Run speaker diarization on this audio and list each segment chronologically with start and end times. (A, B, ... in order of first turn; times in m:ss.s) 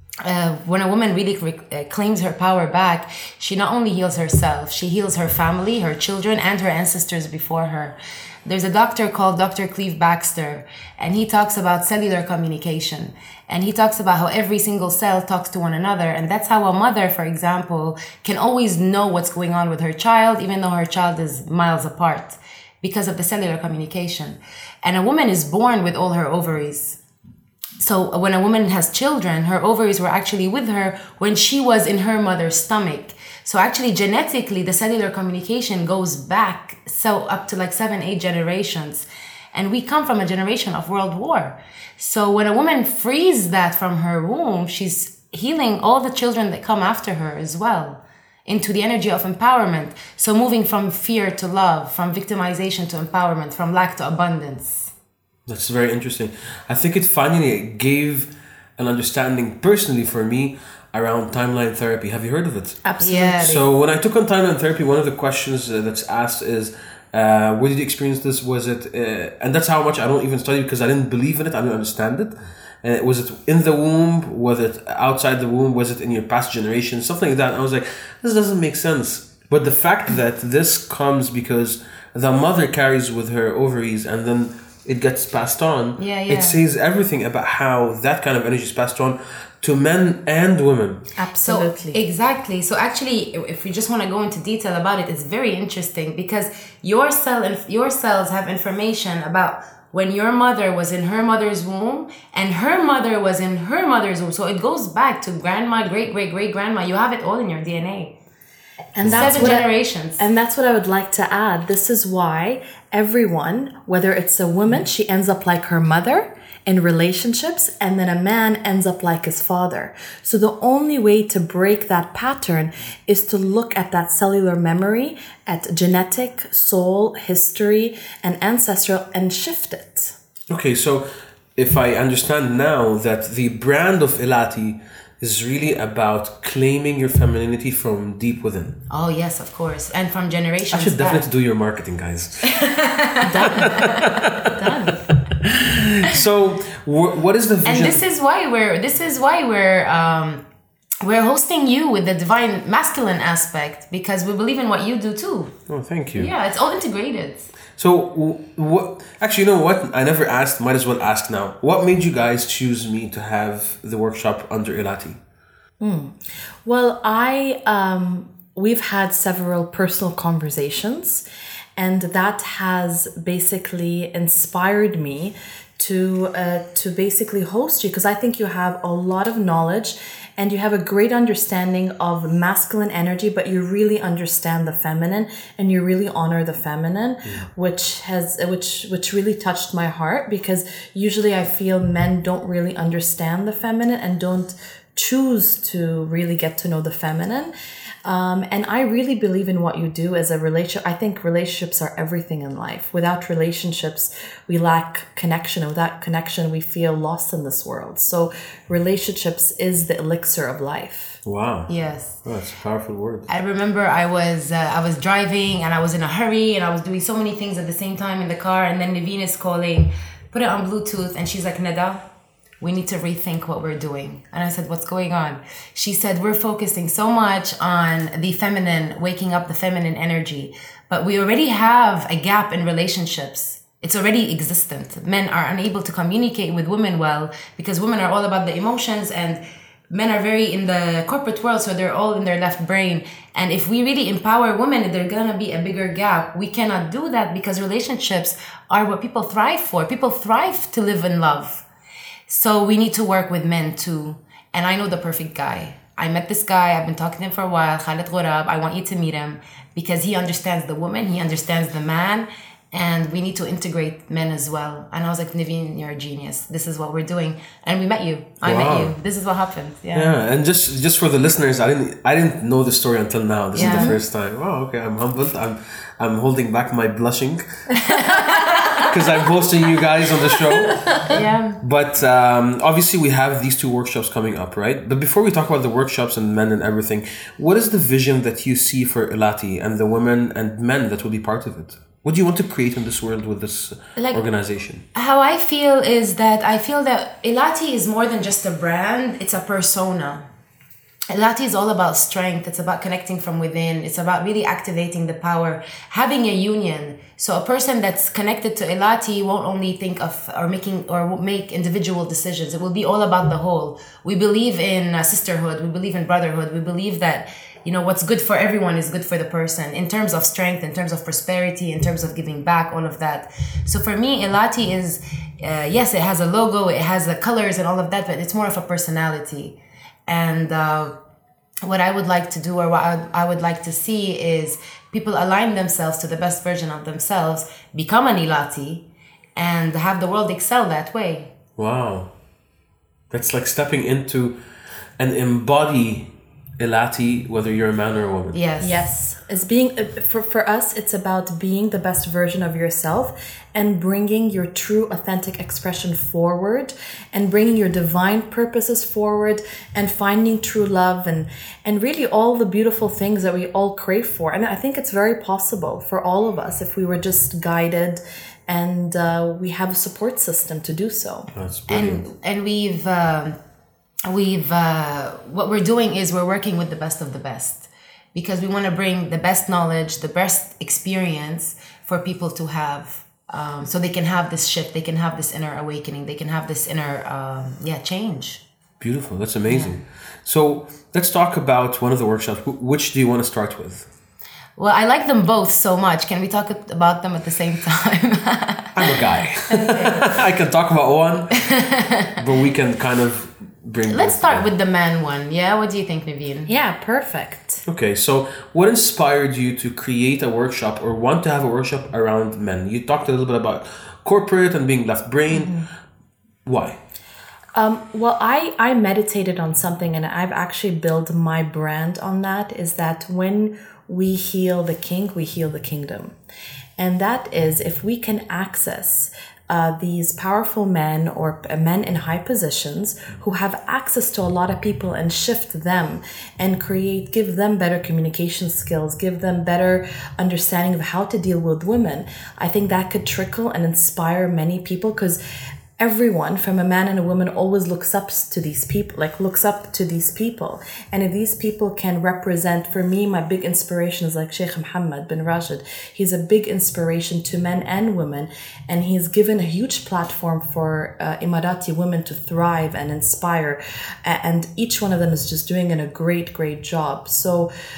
0:00.2-0:27.0 A
0:27.8-0:54.9 A
0:55.5-1:02.8 B
1:02.8-1:03.5 C
1:03.0-1:03.7 A
1:03.4-1:31.1 B
1:26.0-1:26.6 A
1:31.2-1:32.0 C
1:31.4-1:48.2 A
1:49.0-2:10.2 C
1:49.0-1:49.3 B
1:49.1-1:50.2 A
2:10.5-2:18.8 B
2:18.9-2:21.3 A
2:20.7-2:22.6 B
2:22.5-2:24.0 A
2:23.2-2:25.0 C
2:23.4-2:28.0 B
2:27.6-2:30.4 A
2:31.0-2:35.6 A
2:35.7-2:36.3 B
2:36.2-2:37.5 A
2:37.8-2:45.2 B
2:45.8-2:51.2 C
2:51.8-3:17.5 C
3:18.0-3:31.2 C
3:31.2-3:31.7 B
3:31.7-3:32.2 A
3:32.2-3:33.3 B
3:33.3-3:42.0 A
3:42.6-4:11.6 A
4:12.3-4:30.2 A
4:28.4-4:28.9 B
4:29.9-4:37.4 B
4:33.6-4:34.0 A
4:33.6-4:34.0 C
4:37.8-4:38.9 A
4:38.8-4:41.0 B
4:41.1-4:41.6 A
4:41.6-4:54.8 B
4:54.9-5:00.2 A
5:01.1-5:31.0 A
5:31.6-5:38.8 A
5:39.4-5:41.4 A
5:41.6-5:42.1 B
5:43.1-5:44.4 B
5:45.0-5:48.4 B
5:48.3-5:48.9 A
5:48.6-6:11.3 C
6:11.3-6:12.1 B
6:11.7-6:13.4 A
6:14.1-6:28.4 A
6:28.8-6:33.9 B
6:29.5-6:29.8 A
6:34.6-6:40.1 A
6:38.8-6:41.4 B
6:41.4-6:42.2 A
6:42.2-6:44.5 B
6:43.9-6:46.5 A
6:46.5-6:47.6 C
6:47.7-6:55.6 B
6:55.3-6:55.7 C
6:56.5-6:56.8 B
6:57.6-7:06.2 C
7:06.8-7:25.2 C
7:25.8-7:47.5 C